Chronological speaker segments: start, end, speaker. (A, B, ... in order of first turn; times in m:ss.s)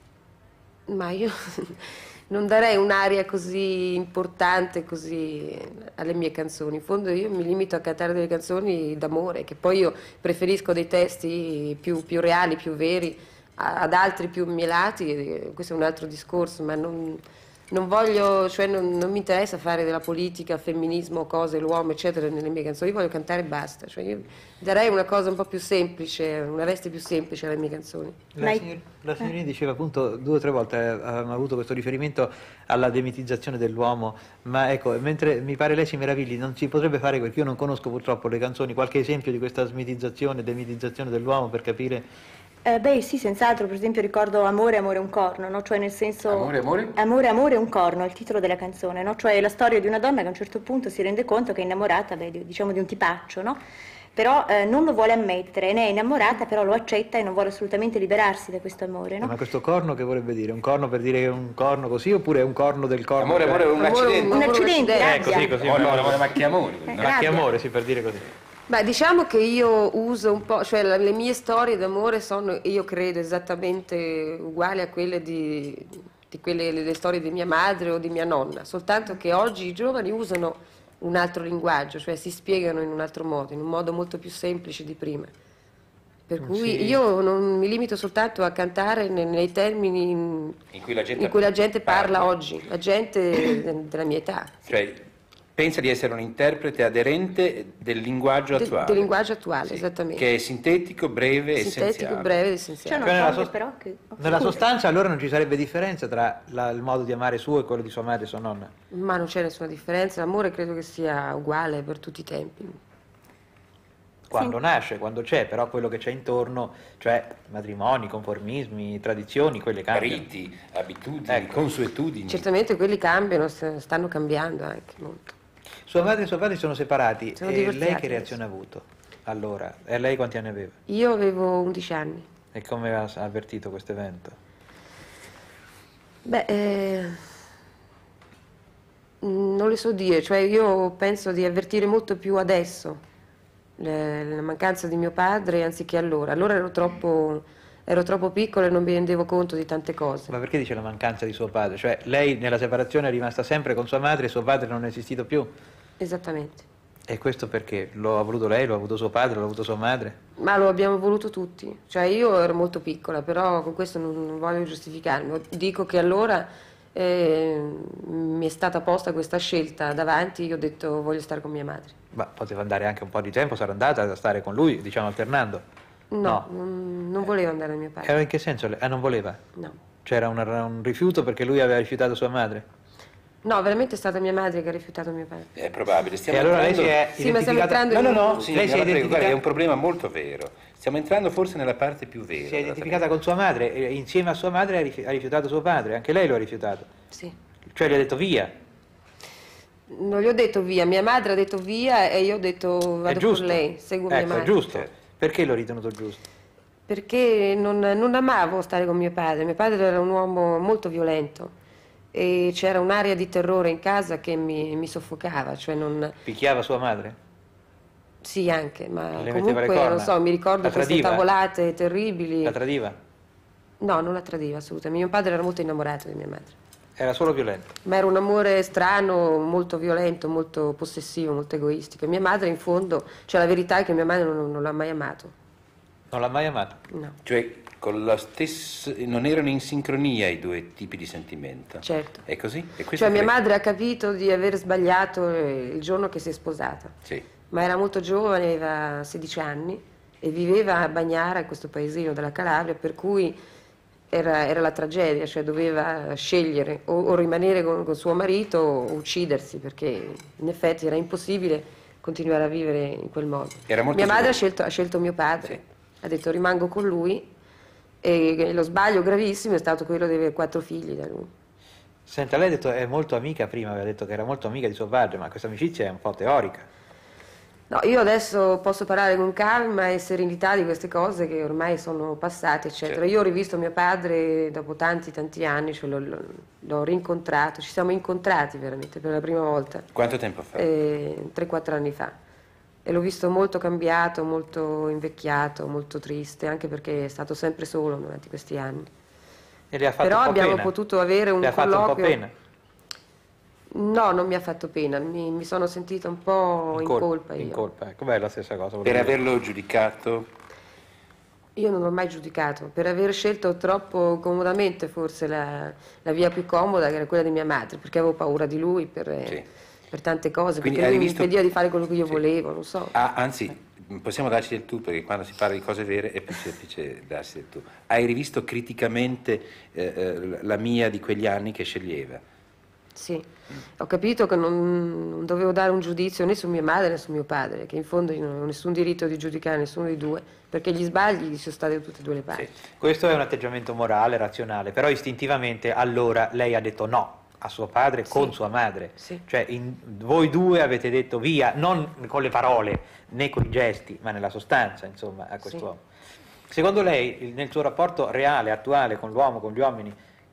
0:00.9-0:28.2 A
0:28.4-0:42.0 B
0:28.4-0:28.7 C
0:42.6-0:53.6 C
0:46.3-0:47.0 D
0:54.1-0:59.4 C
0:59.2-1:03.7 B
1:03.2-1:04.6 D
1:03.8-1:05.5 A
1:04.3-1:05.6 C
1:04.9-1:06.4 B
1:05.5-1:07.5 D
1:06.9-1:08.3 B
1:07.0-1:07.4 C
1:08.7-1:25.3 A
1:26.3-1:30.6 A
1:26.4-1:27.0 B
1:30.7-1:32.3 D
1:31.2-1:34.5 A
1:34.7-1:35.0 D
1:35.6-1:39.1 D
1:38.6-1:40.2 A
1:39.7-1:42.4 D
1:41.6-1:43.4 A
1:42.8-1:44.6 C
1:43.0-1:43.5 B
1:44.2-1:48.7 B
1:48.9-1:52.8 A
1:54.3-2:00.2 B
1:59.9-2:02.5 D
2:01.3-2:01.6 B
2:02.3-2:05.4 A
2:05.9-2:10.8 B
2:07.4-2:08.4 A
2:10.9-2:12.3 A
2:12.5-2:14.4 B
2:16.2-2:17.3 A
2:19.2-2:23.0 A
2:23.8-2:30.3 A
2:30.3-2:35.5 B
2:36.0-2:36.6 A
2:37.1-2:40.2 B
2:40.4-2:52.0 A
2:52.1-2:55.6 B
2:56.1-2:58.1 A
2:58.0-2:59.4 B
3:00.0-3:02.7 B
3:03.4-3:05.5 A
3:05.6-3:07.0 D
3:06.3-3:09.4 B
3:07.2-3:08.4 A
3:07.9-3:13.0 D
3:12.4-3:16.9 B
3:17.7-3:18.5 B
3:19.9-3:24.6 A
3:23.1-3:26.2 B
3:26.9-3:31.5 A
3:32.1-3:36.2 A
3:36.2-3:37.2 B
3:38.2-3:42.6 A
3:39.1-3:41.2 B
3:42.4-3:43.0 B
3:43.8-3:46.6 A
3:47.0-3:47.8 B
3:47.8-3:55.3 A
3:56.1-3:56.8 B
3:57.2-4:03.3 D
4:01.8-4:02.2 A
4:03.0-4:07.0 A
4:07.5-4:13.4 A
4:14.1-4:27.3 A
4:23.7-4:24.4 D
4:28.0-4:31.3 A
4:32.1-4:36.7 B
4:37.7-4:49.9 A
4:50.0-4:50.7 D
4:50.6-4:52.1 A
4:52.8-4:58.9 A
4:59.7-5:00.7 B
5:00.0-5:02.2 A
5:01.4-5:02.3 B
5:03.7-5:07.6 A
5:06.7-5:09.2 B
5:08.8-5:10.3 D
5:11.6-5:22.9 A
5:20.6-5:21.4 D
5:22.9-5:32.2 D
5:33.0-5:33.3 A
5:33.8-5:42.5 A
5:42.8-5:55.8 B
5:48.1-5:48.4 A
5:56.5-6:00.0 B